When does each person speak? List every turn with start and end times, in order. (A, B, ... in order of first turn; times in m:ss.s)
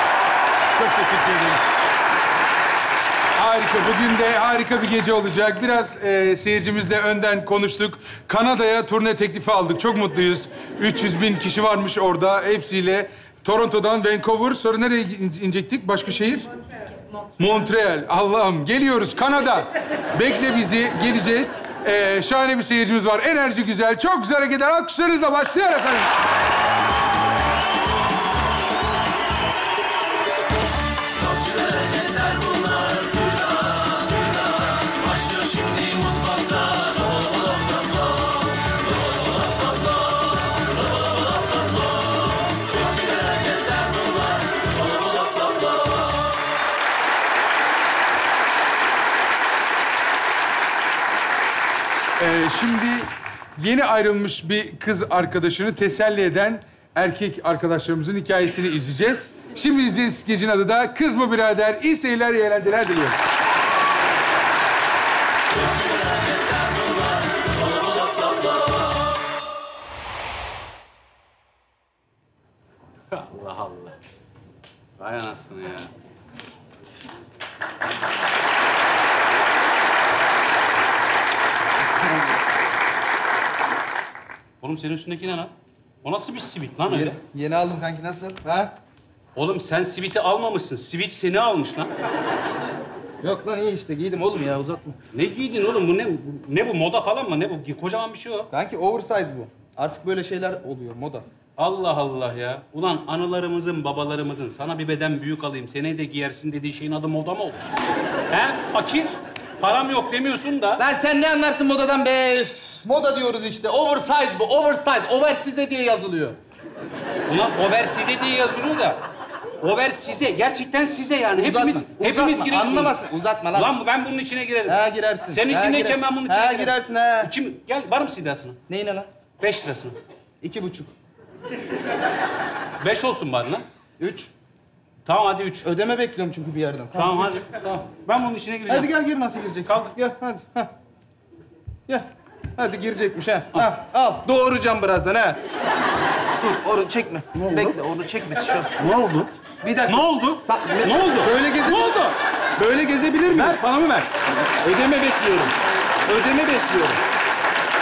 0:00.8-0:01.6 A
0:03.4-0:16.5 A
0:17.4-0:26.1 A
0:52.2-1:03.2 A
1:13.1-1:14.0 B
1:15.0-1:15.9 B
1:24.6-1:25.5 B
1:26.0-1:27.2 B
1:26.9-1:28.7 C
1:29.4-1:31.9 B
1:33.2-1:35.0 C
1:35.1-1:38.5 B
1:38.5-1:41.2 C
1:41.6-1:47.7 B
1:48.3-1:50.8 B
1:50.8-1:56.4 C
1:57.3-1:59.0 B
1:59.6-2:03.0 B
2:01.4-2:03.7 C
2:03.5-2:08.6 B
2:04.7-2:07.3 C
2:08.7-2:09.1 C
2:09.4-2:10.0 B
2:10.4-2:10.9 C
2:12.8-2:13.6 B
2:14.0-2:14.3 C
2:15.0-2:15.7 B
2:15.6-2:17.4 C
2:16.9-2:18.9 B
2:18.7-2:20.7 C
2:19.7-2:19.9 B
2:21.9-2:25.4 C
2:26.4-2:28.7 C
2:27.4-2:27.8 B
2:28.8-2:29.3 B
2:29.6-2:32.0 C
2:29.9-2:32.2 B
2:32.6-2:33.6 C
2:33.3-2:34.1 B
2:34.6-2:35.5 C
2:36.1-2:37.0 C